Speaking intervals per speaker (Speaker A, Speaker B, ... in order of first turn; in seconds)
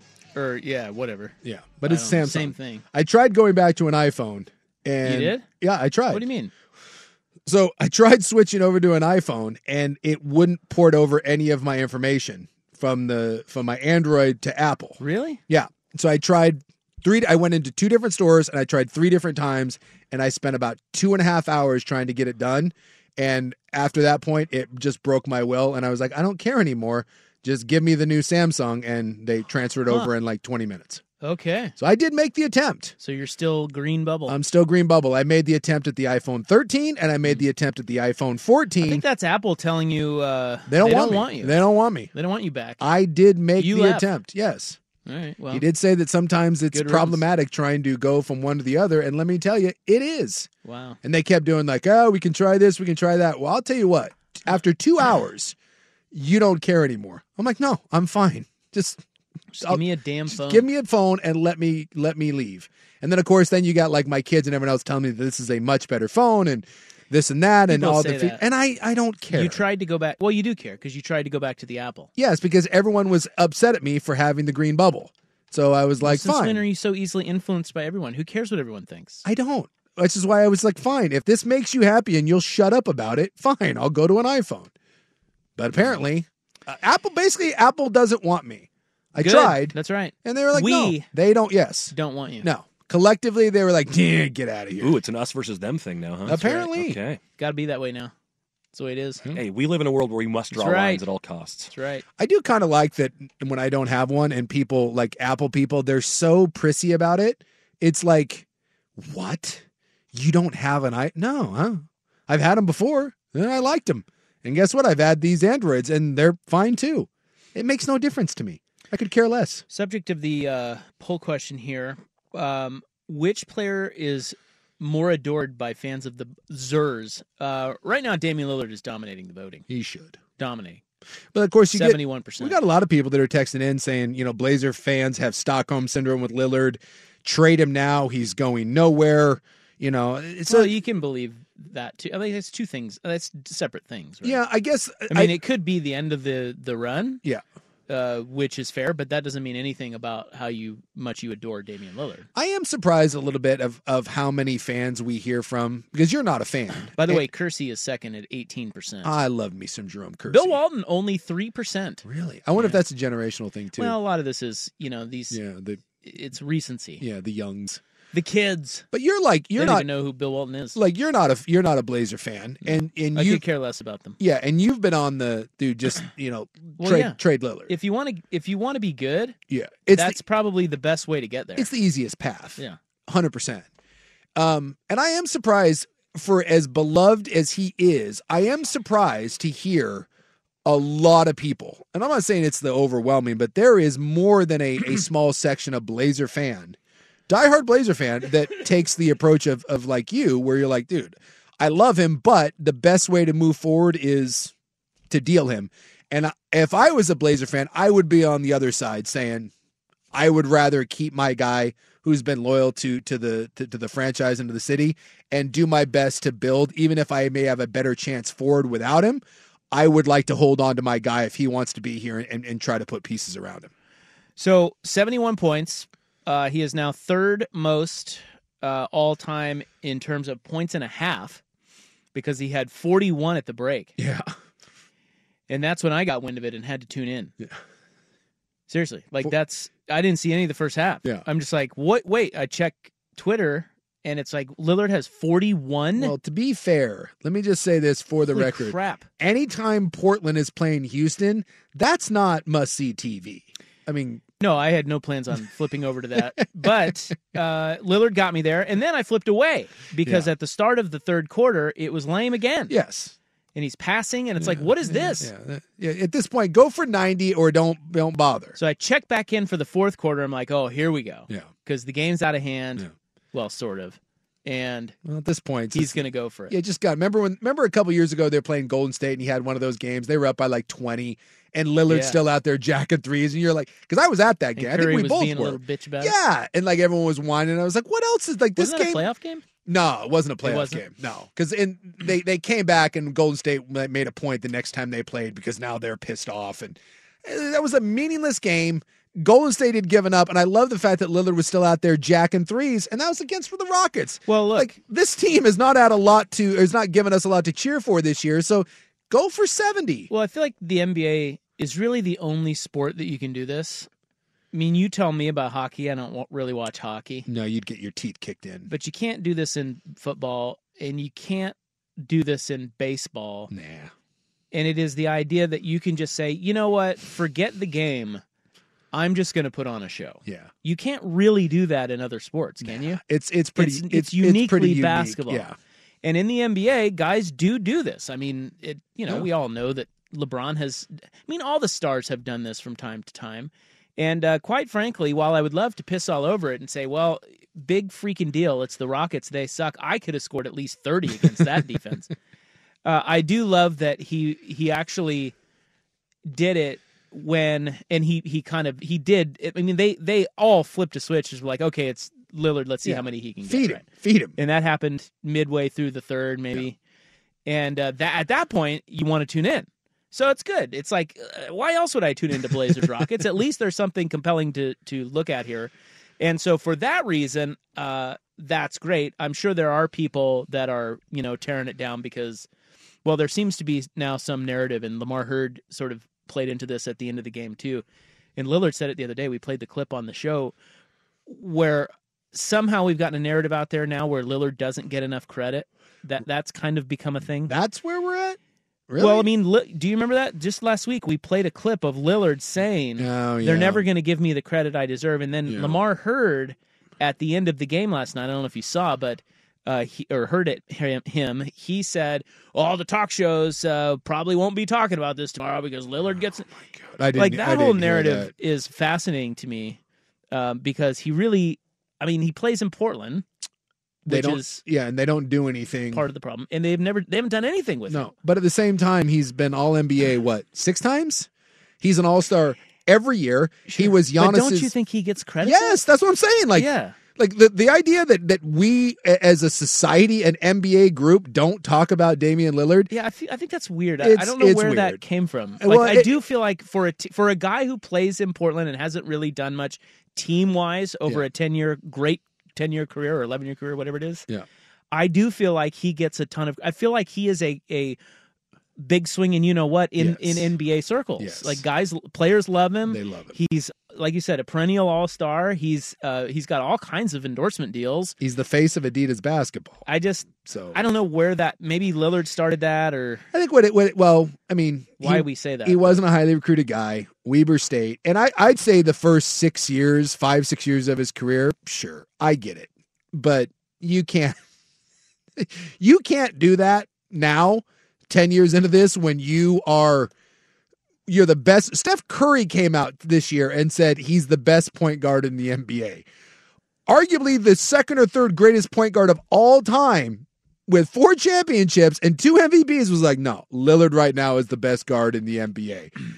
Speaker A: 0.3-2.8, 5.0-5.5, 6.1-6.5, 15.0-15.4, 31.2-31.8, 33.0-34.4, 38.8-41.6, 42.1-42.8, 43.6-44.1, 45.1-45.6, 46.7-47.2, 50.6-51.0, 59.5-60.7, 67.7-68.4, 69.3-72.1, 76.0-79.2, 89.2-91.1, 91.9-92.5, 97.4-98.1, 98.7-99.2, 100.5-101.0, 101.7-102.0, 119.7-129.7, 130.4-130.8, 131.7-132.6, 140.5-144.4, 145.1-147.2, 147.9-152.3, 157.0-159.1, 160.3-162.0, 163.8-165.4, 166.0-167.0, 168.1-168.8, 169.6-170.8, 172.7-174.2, 176.8-179.4, 179.9-181.7, 224.4-231.4, 232.1-233.9, 235.5-237.3, 238.7-246.2, 248.3-249.1, 254.4-262.8, 263.6-265.3, 268.6-274.9, 275.7-276.6, 281.9-282.2, 284.6-286.2, 288.6-289.4, 290.4-290.8, 304.3-304.7, 310.1-313.9, 314.5-317.3, 318.7-323.5, 324.5-328.2, 328.9-333.0, 333.6-335.5, 336.0-352.1, 352.8-355.3, 356.3-363.8, 364.4-366.8, 367.5-382.5, 383.1-387.8, 388.4-390.5, 391.3-397.6, 399.0-416.5, 417.1-419.8, 420.3-423.2, 424.1-424.6, 425.9-428.1, 433.7-435.8, 436.5-437.0, 442.9-454.3, 454.9-458.0, 458.8-468.2, 469.9-473.3, 475.0-476.0
Speaker B: 1.4-6.3, 7.5-31.0, 31.8-33.0, 34.3-39.0, 40.7-42.1, 42.8-44.8, 45.5-50.5, 51.0-55.5, 56.1-59.0, 59.6-69.6, 72.2-76.7, 79.2-84.7, 85.6-95.0, 96.3-97.0, 102.2-108.5, 109.0-119.6, 129.7-130.2, 131.3-140.7, 144.2-145.4, 152.3-157.3, 159.0-160.6, 162.0-164.0, 165.3-165.8, 167.0-167.8, 168.9-169.9, 170.8-173.4, 174.2-177.7, 179.5-180.2, 181.6-183.7, 184.4-190.1, 190.7-196.8, 197.3-204.5, 205.1-209.5, 210.1-223.7, 234.0-234.3, 246.0-254.2, 260.0-260.3, 262.7-263.1, 264.4-268.6, 275.1-289.1, 289.6-310.1, 317.3-318.7, 323.5-323.9, 330.3-330.5, 332.6-335.6, 362.8-364.4, 397.5-398.4, 398.9-399.3, 403.0-403.9, 405.5-405.9, 416.8-418.3, 424.1-426.1, 427.9-431.3, 431.8-434.7, 435.4-442.9, 444.0-445.0, 445.6-446.2, 460.0-460.5, 461.2-461.6, 462.9-463.4, 468.2-469.9, 470.4-470.8, 473.3-484.4, 485.4-490.1, 491.1-496.1, 496.9-505.9
Speaker C: 94.8-97.2, 99.3-101.7